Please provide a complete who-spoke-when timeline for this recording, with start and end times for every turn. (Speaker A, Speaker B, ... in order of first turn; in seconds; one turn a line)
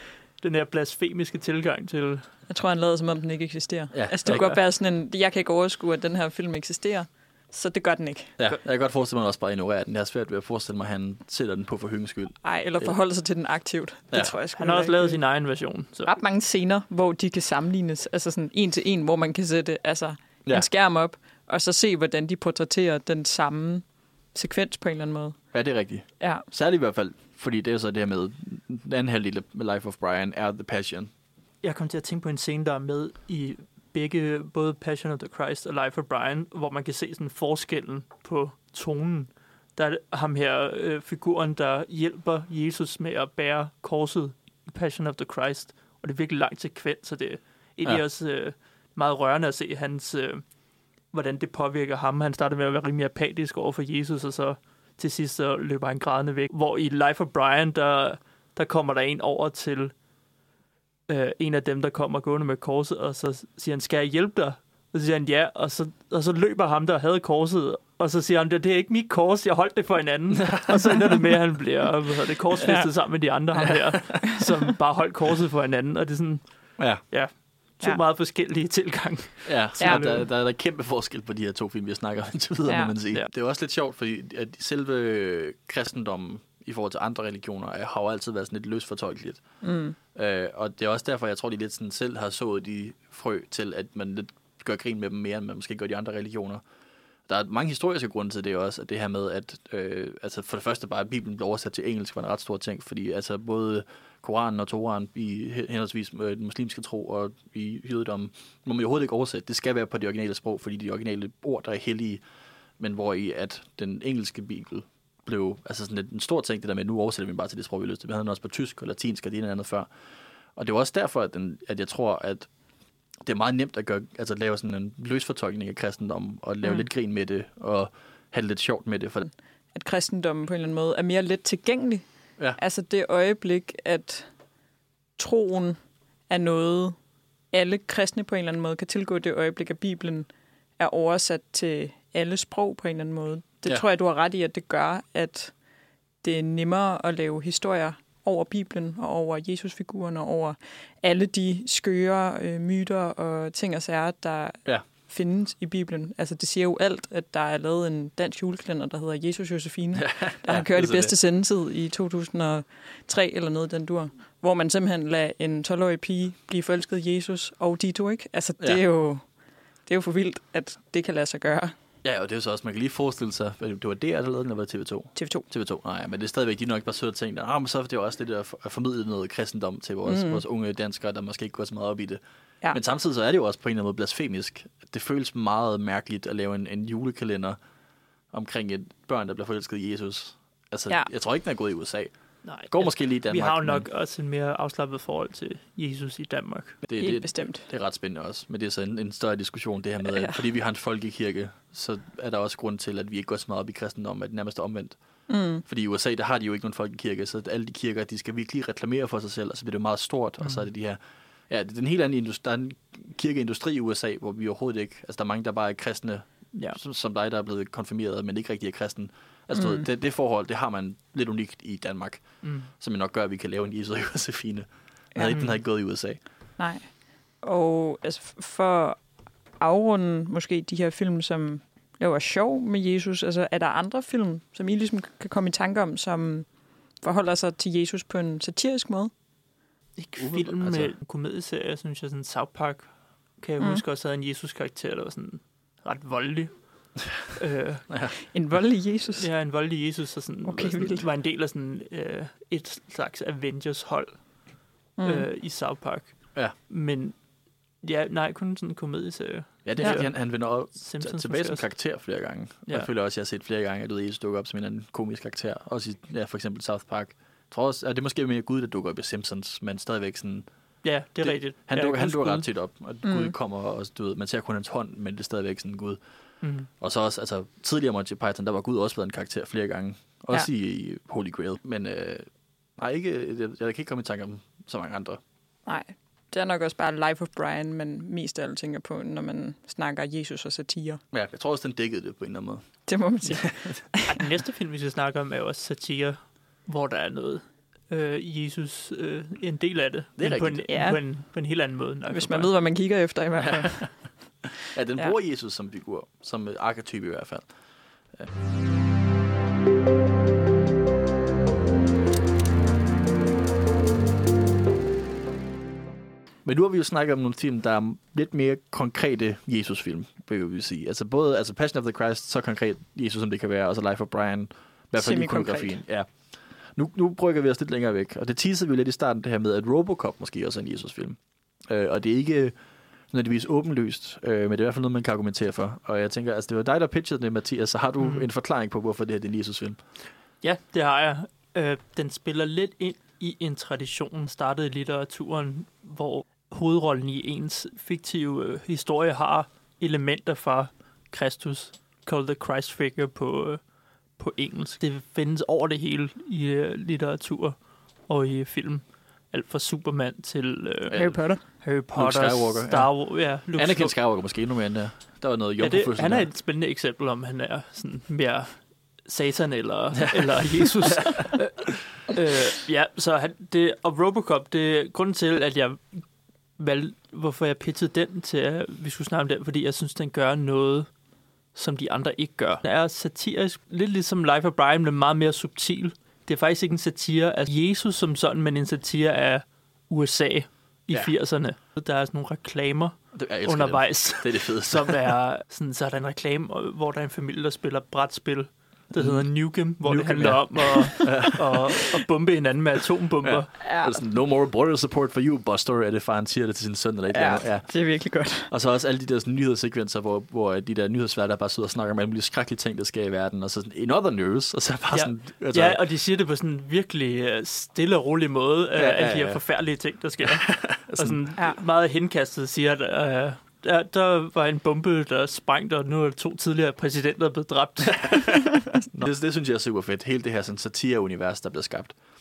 Speaker A: 0.4-2.3
Speaker B: 2.5-8.4
Speaker C: 3.9-4.5
Speaker A: 4.3-4.6
Speaker C: 8.4-13.0
Speaker B: 12.4-15.4
Speaker A: 14.6-16.1
Speaker B: 16.0-25.4
Speaker C: 25.5-31.1
Speaker B: 26.2-26.4
Speaker A: 31.6-50.6
Speaker A: 51.1-59.9
Speaker A: 61.1-80.2
Speaker C: 70.5-71.0
Speaker B: 72.6-72.9
Speaker C: 76.8-77.0
Speaker C: 79.5-89.4
Speaker B: 82.7-82.9
Speaker B: 89.6-90.0
Speaker C: 90.1-96.6
Speaker C: 97.3-112.2
Speaker C: 112.8-119.9
Speaker C: 120.5-122.5
Speaker C: 123.2-129.3
Speaker B: 129.7-134.3
Speaker B: 135.2-137.0
Speaker B: 137.5-145.5
Speaker B: 146.2-169.3
Speaker C: 159.9-161.1
Speaker B: 169.8-171.8
Speaker C: 172.0-187.6
Speaker B: 175.1-175.4
Speaker B: 180.1-180.4
Speaker C: 188.3-193.9
Speaker A: 192.4-196.8
Speaker C: 196.8-226.2
Speaker B: 197.0-197.7
Speaker B: 200.0-200.4
Speaker B: 205.3-205.6
Speaker A: 210.4-210.7
Speaker A: 216.5-216.8
Speaker B: 219.5-219.9
Speaker A: 222.4-222.7
Speaker B: 225.1-225.8
Speaker A: 225.3-225.6
Speaker B: 226.6-239.1
Speaker A: 239.9-248.1
Speaker C: 240.2-240.9
Speaker B: 248.3-249.3
Speaker A: 249.2-257.2
Speaker B: 250.4-251.1
Speaker B: 255.0-255.3
Speaker A: 257.8-262.1
Speaker C: 259.6-285.2
Speaker A: 270.8-272.5
Speaker B: 273.0-273.3
Speaker A: 276.4-276.7
Speaker B: 285.6-291.0
Speaker C: 291.1-293.8
Speaker B: 292.9-294.1
Speaker A: 294.1-302.5
Speaker C: 300.2-300.9
Speaker B: 300.7-301.5
Speaker B: 302.1-304.2
Speaker C: 303.4-307.5
Speaker C: 316.4-332.6
Speaker B: 324.9-325.8
Speaker C: 333.1-339.8
Speaker A: 338.0-338.2
Speaker A: 340.4-353.6
Speaker A: 354.2-364.0
Speaker C: 360.9-366.3
Speaker B: 360.9-361.4
Speaker A: 365.6-380.9
Speaker C: 370.0-370.4
Speaker A: 381.5-403.5
Speaker C: 393.1-395.1
Speaker C: 398.9-401.6
Speaker C: 403.2-415.8
Speaker B: 403.6-404.0
Speaker B: 407.1-408.5
Speaker A: 414.9-428.5
Speaker C: 418.8-419.4
Speaker C: 420.2-421.2
Speaker C: 428.1-431.9